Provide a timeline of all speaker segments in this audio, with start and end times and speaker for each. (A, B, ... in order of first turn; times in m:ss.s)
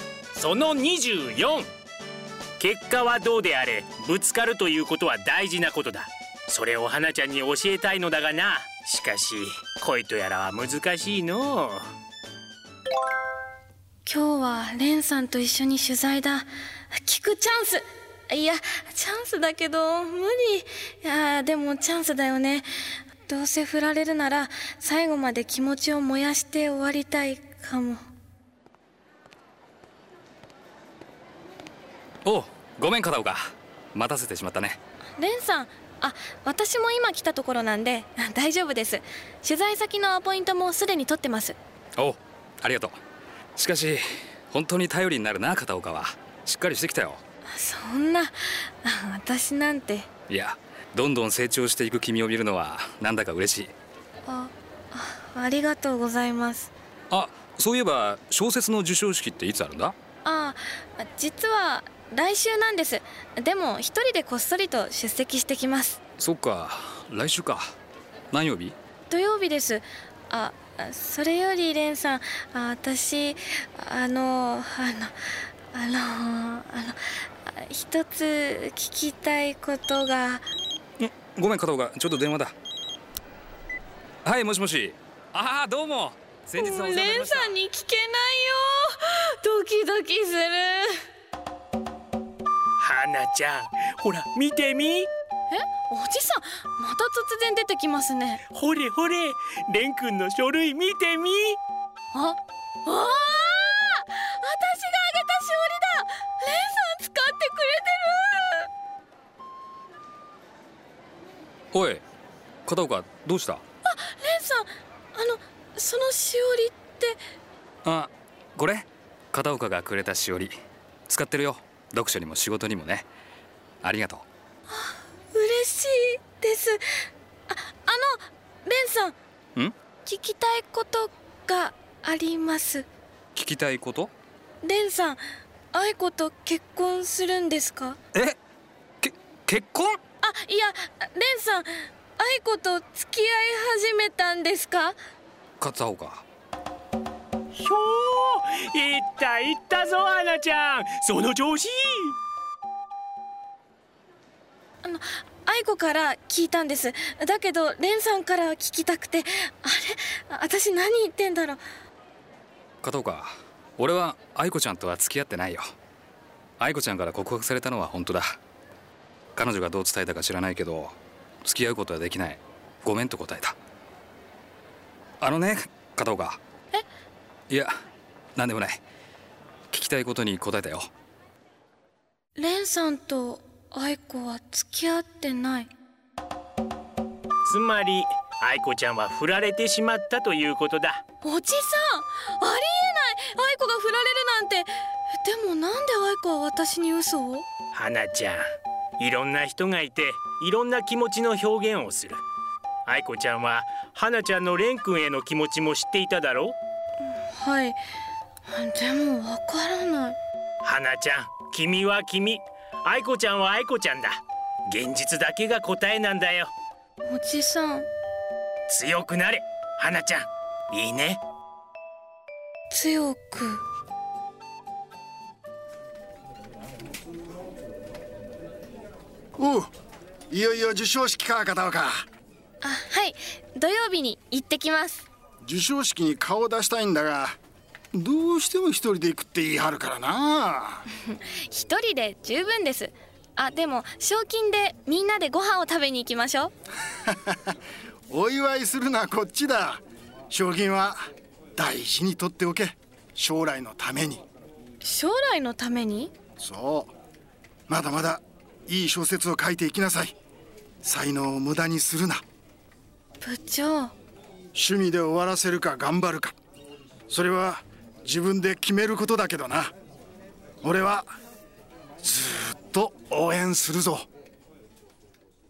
0:00.4-0:01.7 A
0:02.6-0:11.8 A
0:14.1-0:22.7 B
0:23.3-0:28.0 B
0:32.2-0:33.4 C
0:33.9-0:34.8 C
0:35.2-0:41.6 B
0:42.0-0:43.0 C
0:43.6-0:47.2 C
0:47.5-0:50.1 B
0:50.3-0:53.7 C
0:54.2-0:56.7 B
0:57.1-1:00.0 C
1:00.2-1:06.0 B
1:06.2-1:07.6 C
1:08.3-1:08.8 C
1:09.1-1:15.2 B
1:15.7-1:20.4 B
1:21.0-1:22.5 C
1:24.2-1:27.6 C
1:26.6-1:31.0 B
1:32.8-1:35.1 A
1:35.5-1:38.4 B
1:38.5-1:41.6 A
1:42.1-1:48.7 B
1:51.7-1:52.0 C
1:52.7-1:53.6 C
1:53.8-1:57.2 B
1:57.8-2:00.5 C
2:01.1-2:03.1 C
2:03.8-2:04.2 C
2:04.7-2:06.8 B
2:07.5-2:09.2 B
2:10.0-2:12.9 B
2:13.4-2:14.1 C
2:14.6-2:15.2 B
2:15.7-2:18.0 B
2:18.1-2:18.4 C
2:19.0-2:20.0 C
2:20.2-2:25.0 B
2:25.6-2:26.2 C
2:27.6-2:32.2 A
2:34.8-2:41.6 B
2:42.8-2:45.6 C
2:46.6-2:48.4 C
2:49.4-2:53.6 C
2:55.2-2:56.4 C
2:58.4-2:58.8 C
2:59.7-3:00.9 C
3:02.4-3:05.7 B
3:07.4-3:11.0 A
3:11.2-3:17.5 B
3:17.7-3:18.4 A
3:19.0-3:22.2 A
3:22.9-3:26.6 A
3:27.1-3:27.8 B
3:28.5-3:30.2 B
3:30.6-3:36.5 A
3:37.0-3:37.9 B
3:38.7-3:41.2 A
3:42.7-3:43.6 B
3:49.4-3:49.7 D
3:50.3-3:52.0 D
3:52.6-3:55.1 B
3:55.4-3:57.4 D
3:57.9-4:00.8 D
4:01.0-4:06.5 B
4:07.1-4:07.4 D
4:08.1-4:11.0 D
4:11.6-4:14.2 D
4:14.8-4:16.1 B
4:16.4-4:16.9 D
4:17.7-4:20.2 D
4:20.8-4:22.2 D
4:23.2-4:23.9 B
4:24.6-4:26.4 D
4:27.1-4:29.7 D
4:30.6-4:31.1 D
4:32.0-4:34.1 D